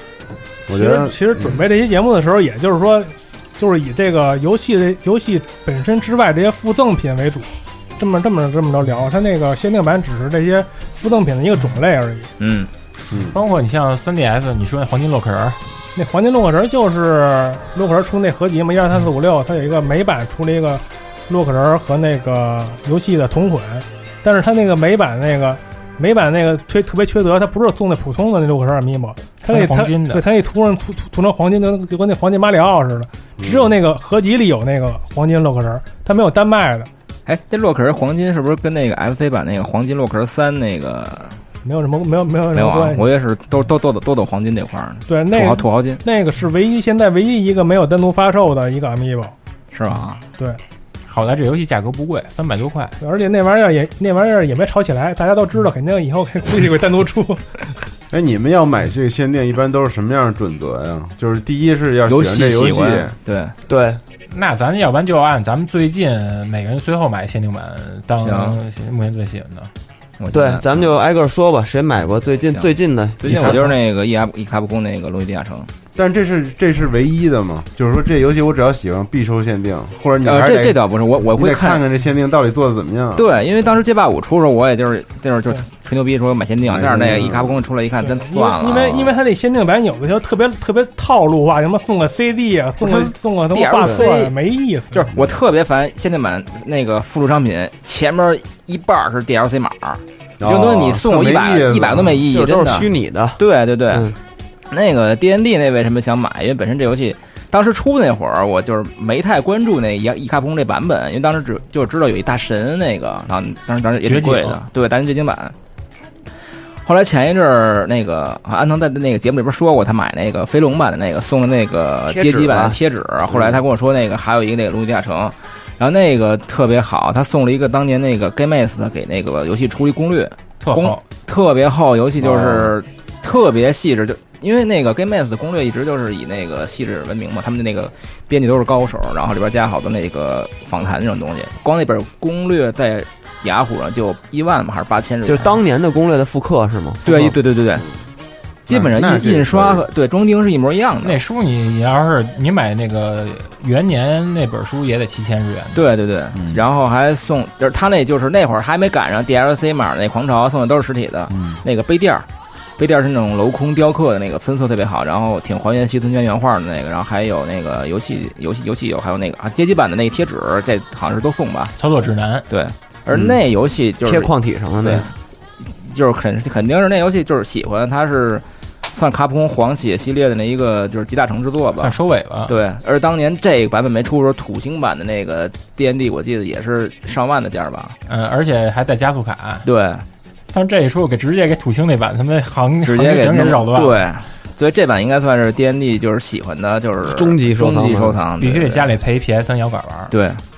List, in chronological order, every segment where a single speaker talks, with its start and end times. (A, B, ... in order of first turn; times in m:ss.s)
0:00.7-0:01.6 A
0:00.7-0:12.3 B
0:12.4-0:12.7 C
0:13.1-0:13.4 A
0:13.3-0:15.6 D
0:16.0-0:36.9 B
0:29.4-0:30.2 D
0:33.4-0:33.8 A
0:37.3-0:41.4 C
0:41.6-0:43.0 B
0:42.5-0:46.0 C
0:45.1-0:49.3 B
0:49.7-0:50.2 C
0:51.1-0:53.0 D
0:53.0-0:57.5 B
0:58.1-1:03.2 A
1:02.1-1:03.6 C
1:03.7-1:04.0 E
1:04.3-1:09.7 D
1:08.2-1:08.6 C
1:10.2-1:10.9 C
1:10.3-1:13.7 E
1:13.2-1:15.7 C
1:16.0-1:23.3 A
1:20.2-1:21.8 C
1:23.2-1:29.1 C
1:26.6-1:27.6 A
1:28.0-1:35.0 B
1:32.8-1:34.3 C
1:33.8-1:34.1 E
1:34.9-1:44.1 C
1:40.4-1:42.3 A
1:42.3-1:44.2 E
1:44.7-1:55.6 C
1:54.0-1:54.6 D
1:56.8-2:25.6 C
2:02.1-2:02.8 E
2:10.6-2:11.0 D
2:12.2-2:12.8 A
2:25.3-2:27.9 E
2:27.0-2:27.8 C
2:28.7-2:31.2 C
2:28.7-2:29.8 A
2:31.0-2:35.8 D
2:35.8-2:42.3 C
2:36.4-2:36.6 A
2:41.3-2:41.6 A
2:42.8-2:51.7 C
2:51.8-2:52.4 D
2:52.5-2:55.1 C
2:54.0-2:55.1 E
2:55.8-3:08.0 C
3:01.8-3:02.6 D
3:08.1-3:09.7 D
3:09.6-3:10.0 C
3:10.5-3:14.0 D
3:12.8-3:18.9 C
3:17.0-3:18.2 E
3:18.4-3:20.1 D
3:20.1-3:20.4 C